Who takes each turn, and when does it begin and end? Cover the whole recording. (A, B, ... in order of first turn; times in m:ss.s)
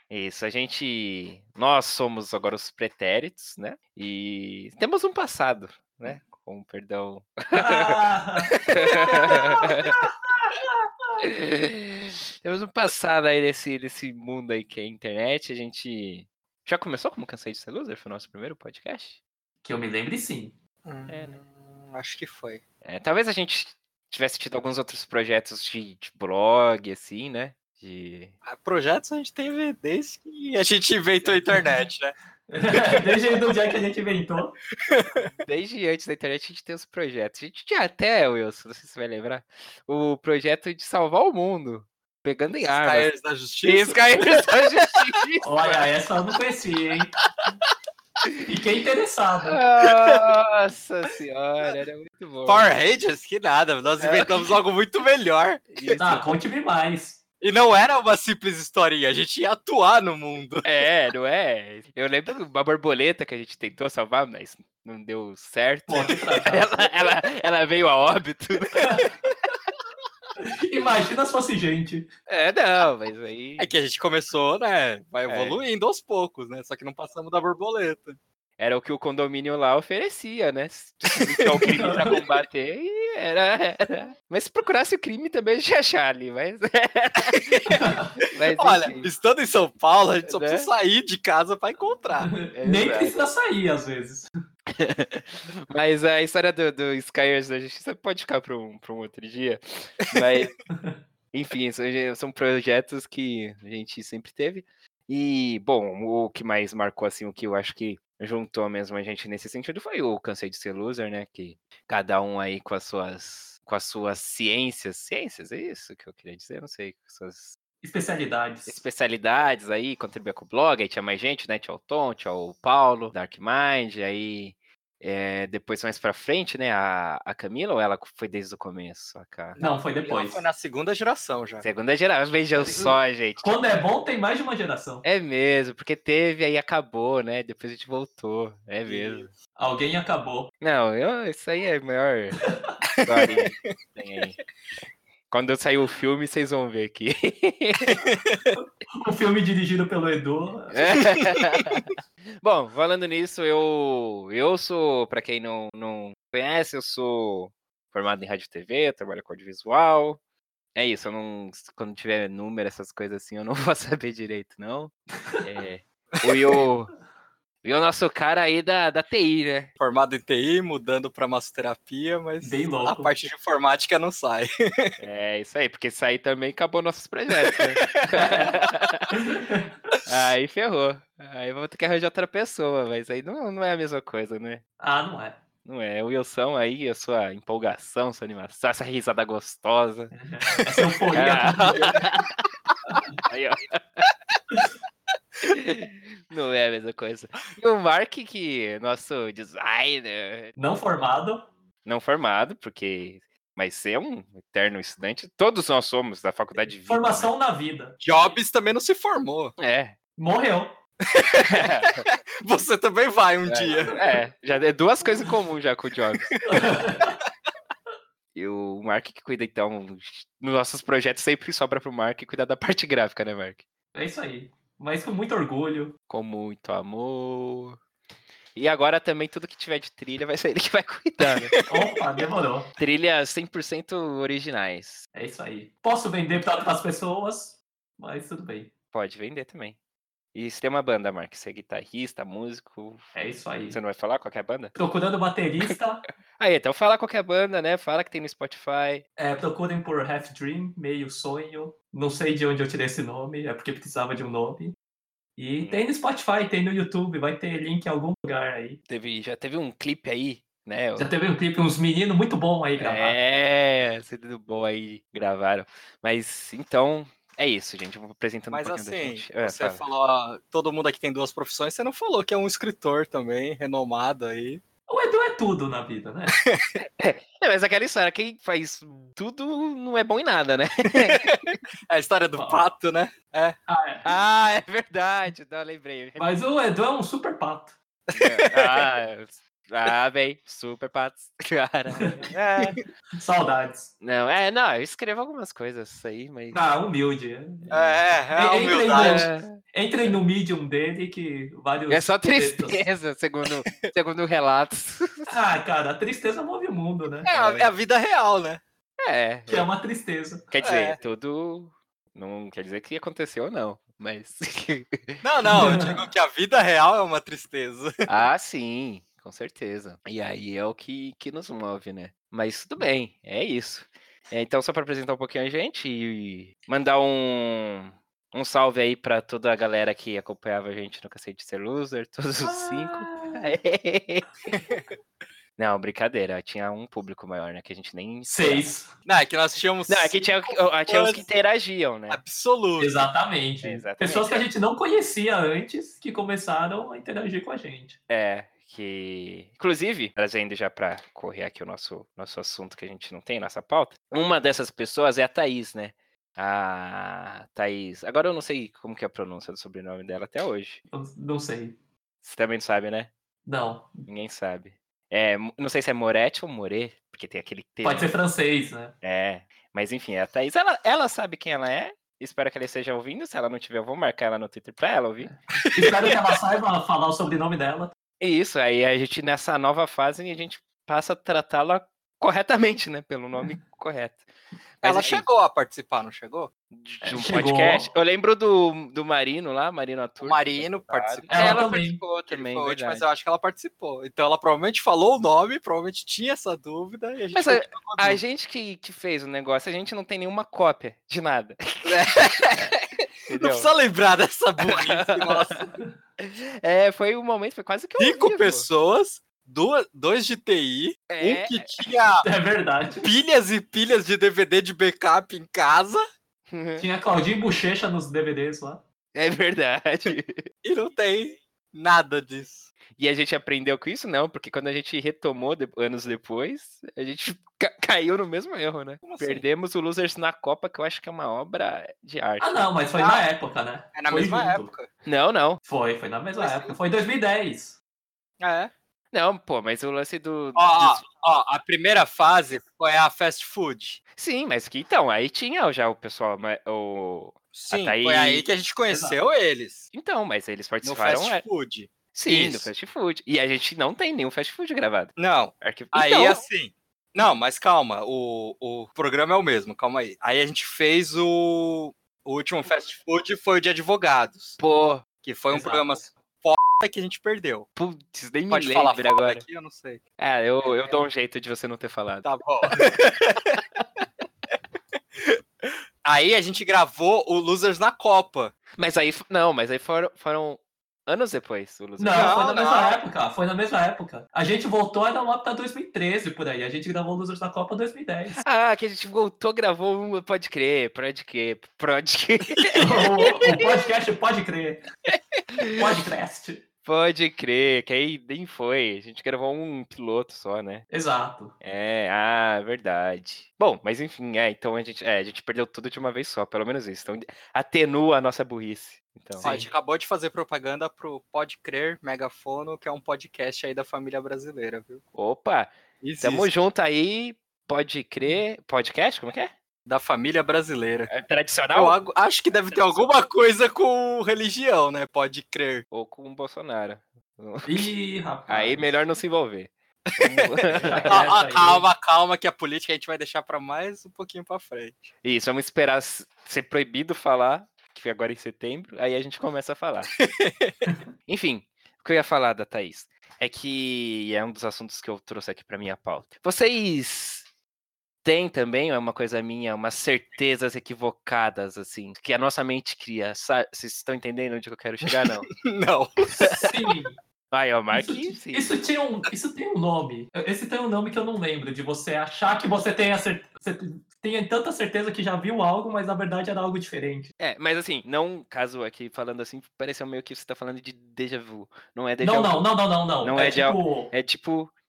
0:00.1-0:08.0 A
0:07.5-0:11.2 B
0:08.6-0:10.0 A
0:11.2-0:19.2 A
0:19.6-0:20.6 B
0:20.8-0:22.6 C
0:21.1-0:21.4 A
0:22.8-0:28.3 A
0:28.4-0:32.2 C
0:32.5-0:34.6 B
0:34.8-0:35.3 C
0:35.4-0:43.1 A
0:42.8-0:45.1 C
0:43.6-0:45.7 A
0:45.4-0:47.2 B
0:48.4-0:49.6 B
0:49.4-0:52.7 A
0:49.8-0:50.2 C
0:52.5-0:56.0 C
0:54.0-0:54.6 A
0:55.7-0:56.4 A
0:56.0-0:57.2 B
0:57.4-1:00.7 C
1:00.6-1:09.0 A
1:05.9-1:06.7 B
1:08.8-1:09.1 B
1:10.4-1:12.1 B
1:12.3-1:13.7 A
1:13.6-1:18.2 C
1:15.3-1:15.6 A
1:18.6-1:29.1 A
1:21.4-1:21.8 C
1:21.7-1:22.2 B
1:27.3-1:27.8 C
1:27.7-1:28.1 B
1:28.4-1:32.3 C
1:30.2-1:30.7 A
1:32.2-1:34.3 B
1:32.5-1:33.2 A
1:34.7-1:40.5 A
1:40.7-1:41.0 B
1:41.3-1:57.6 A
1:57.8-1:58.8 B
1:58.7-2:09.6 A
2:09.6-2:10.4 B
2:09.6-2:11.7 C
2:11.6-2:13.6 A
2:12.6-2:15.0 B
2:15.0-2:19.3 A
2:18.9-2:19.3 C
2:19.6-2:20.5 B
2:20.6-2:22.4 A
2:22.4-2:22.7 B
2:23.0-2:23.7 C
2:23.0-2:24.4 A
2:25.3-2:28.0 A
2:27.9-2:28.6 C
2:28.6-2:31.0 B
2:30.7-2:40.2 A
2:31.1-2:31.7 C
2:40.8-2:46.9 A
2:47.6-2:49.7 A
2:49.8-2:55.0 C
2:52.4-2:53.1 B
2:55.0-2:59.1 A
2:58.1-3:00.0 B
3:00.1-3:04.6 A
3:04.8-3:05.4 B
3:05.6-3:10.1 A
3:10.1-3:12.0 B
3:10.6-3:11.0 C
3:11.1-3:12.4 A
3:13.3-3:14.1 A
3:15.4-3:20.5 A
3:20.6-3:21.5 B
3:21.8-3:27.3 A
3:26.9-3:28.0 B
3:28.0-3:29.5 C
3:29.6-3:30.0 A
3:30.2-3:30.8 B
3:31.1-3:34.0 C
3:31.4-3:32.1 A
3:33.5-3:36.4 A
3:33.8-3:34.2 B
3:36.4-3:37.2 B
3:36.5-3:37.0 C
3:38.4-3:43.6 A
3:43.9-3:46.0 B
3:46.1-3:47.8 A
3:48.6-3:51.6 A
3:51.2-3:51.6 C
3:51.7-3:52.7 B
3:52.8-3:55.1 A
3:55.2-3:58.7 B
3:58.9-3:59.8 A
4:00.3-4:03.1 A
4:03.2-4:03.8 B
4:03.7-4:04.7 A
4:04.8-4:06.0 B
4:06.4-4:09.0 A
4:09.2-4:14.8 B
4:15.4-4:18.8 B
4:18.9-4:21.1 A
4:21.0-4:23.2 B
4:22.8-4:29.8 A
4:28.5-4:34.6 C
4:34.9-4:36.4 B
4:36.4-4:36.7 C
4:36.8-4:41.2 A
4:41.0-4:43.6 C
4:42.4-4:42.6 B
4:43.7-4:44.1 B
4:44.0-4:46.3 A
4:46.2-4:47.8 B
4:48.1-4:48.8 C
4:48.1-4:52.8 A
4:52.0-4:52.3 B
4:52.3-4:52.8 C
4:53.2-4:53.9 B
4:54.0-4:56.6 A
4:56.5-4:57.8 B
4:57.7-4:58.0 A
4:57.7-4:59.3 C
4:58.3-5:02.9 B
4:58.9-5:00.1 A
5:01.9-5:05.4 A
5:05.3-5:07.3 B
5:07.3-5:08.6 C
5:07.3-5:07.7 A
5:09.0-5:09.7 A
5:09.5-5:10.5 B
5:10.5-5:15.6 A
5:10.6-5:11.0 C
5:15.2-5:18.1 C
5:15.5-5:16.0 B
5:18.1-5:34.3 A
5:32.4-5:33.5 B
5:34.5-5:34.8 C
5:35.6-5:38.7 A
5:38.3-5:38.9 B
5:39.0-5:41.3 C
5:39.9-5:42.2 A
5:42.1-5:43.1 C
5:42.8-5:48.0 B
5:43.6-5:44.4 A
5:48.1-6:00.8 A
6:00.9-6:01.8 B
6:02.2-6:03.1 A
6:03.4-6:04.1 B
6:04.1-6:08.1 A
6:07.8-6:09.0 B
6:09.0-6:15.3 A
6:15.3-6:17.9 B
6:15.6-6:16.2 C
6:18.2-6:24.3 A
6:24.8-6:25.3 A
6:24.8-6:26.5 C
6:26.7-6:33.0 A
6:27.0-6:27.9 B
6:30.2-6:38.2 C
6:31.3-6:32.0 B
6:37.3-6:42.7 A
6:41.9-6:45.7 C
6:43.3-6:43.7 A
6:44.7-6:48.7 A
6:48.0-6:52.3 C
6:51.1-6:51.8 A
6:52.2-6:53.1 B
6:53.0-6:56.0 C
6:56.5-6:56.9 A
6:56.8-6:58.8 B
6:59.1-7:00.5 A
7:00.6-7:02.7 C
7:03.0-7:12.7 A
7:09.0-7:09.4 C
7:12.4-7:14.7 B
7:13.0-7:13.2 C
7:13.9-7:14.9 C
7:15.1-7:15.6 A
7:15.6-7:17.8 B
7:16.4-7:16.8 C
7:18.4-7:18.7 C
7:19.1-7:21.0 A
7:20.6-7:24.0 C
7:24.2-7:28.5 A
7:27.5-7:29.9 C
7:28.9-7:29.2 B
7:29.9-7:31.5 A
7:30.8-7:32.7 C
7:32.1-7:36.4 A
7:35.2-7:44.6 C
7:44.6-7:45.0 A
7:45.2-7:47.7 C
7:45.5-7:46.1 B
7:47.8-7:49.4 A
7:48.5-7:50.0 C
7:50.2-7:53.8 A
7:52.2-7:53.1 C
7:56.0-7:58.5 C
7:58.8-8:02.5 A
8:02.0-8:08.4 B
8:02.1-8:03.0 C
8:08.4-8:13.6 A
8:12.8-8:14.8 B
8:15.1-8:16.0 A
8:15.7-8:16.6 B
8:16.8-8:20.9 A
8:20.9-8:21.5 B
8:21.6-8:29.5 A
8:29.4-8:29.7 B
8:29.4-8:35.0 C
8:35.2-8:39.5 A
8:36.0-8:36.5 C
8:39.9-8:41.1 C
8:41.1-8:42.0 A
8:41.7-8:45.8 C
8:42.5-8:43.1 A
8:45.9-8:47.9 A
8:47.7-8:49.0 B
8:48.5-8:51.4 A
8:50.3-8:55.1 C
8:50.7-8:51.8 B
8:55.2-9:00.1 A
9:00.2-9:00.8 C
9:01.3-9:07.5 A
9:08.2-9:15.5 A
9:15.1-9:16.7 C
9:16.4-9:16.6 A
9:16.5-9:17.2 B
9:17.5-9:18.7 A
9:17.9-9:27.3 B
9:27.4-9:32.7 A
9:32.2-9:34.1 B
9:33.2-9:34.7 A